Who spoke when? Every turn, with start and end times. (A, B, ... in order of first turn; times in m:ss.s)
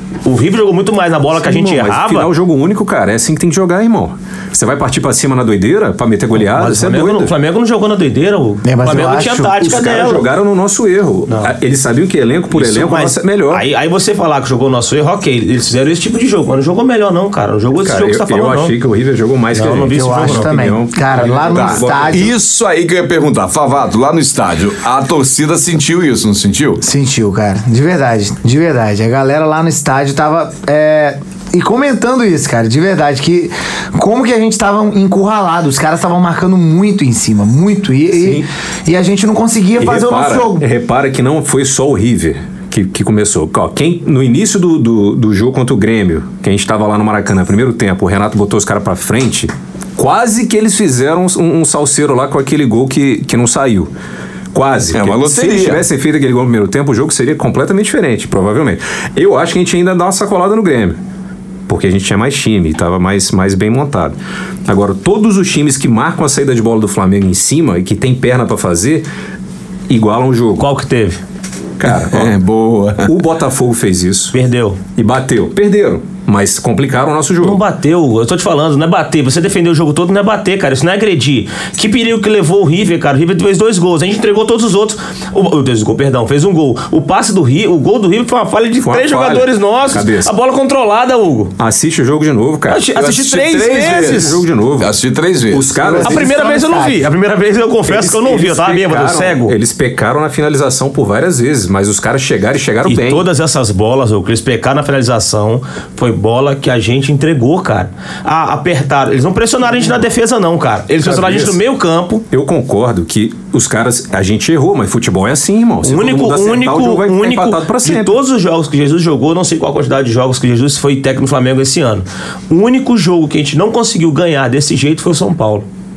0:00.2-0:02.3 A
0:01.4-0:07.4 B
0:06.4-0:10.3 A
0:08.6-0:09.6 C
0:09.6-0:13.6 B
0:11.3-0:11.5 A
0:12.5-0:18.8 A
0:17.8-0:22.3 B
0:19.5-0:20.5 A
0:19.9-0:22.3 C
0:21.5-0:26.8 D
0:26.8-0:40.7 C
0:38.2-0:38.4 B
0:39.8-0:53.9 B
0:54.5-1:01.0 B
0:54.9-0:55.8 D
1:01.7-1:09.1 B
1:09.9-1:10.7 B
1:10.6-1:11.2 A
1:11.8-1:12.3 B
1:11.9-1:13.1 D
1:13.0-1:14.4 B
1:14.3-1:14.8 A
1:15.0-1:17.6 B
1:17.4-1:31.5 A
1:28.8-1:30.3 B
1:31.6-1:32.9 B
1:32.7-1:34.4 A
1:32.9-1:35.8 D
1:33.8-1:35.0 B
1:35.5-1:36.4 B
1:35.8-1:37.1 C
1:36.0-1:39.6 A
1:37.9-1:43.3 B
1:42.8-1:52.2 A
1:49.7-1:50.0 B
1:51.0-1:51.6 B
1:52.3-1:58.2 B
1:55.8-2:05.6 A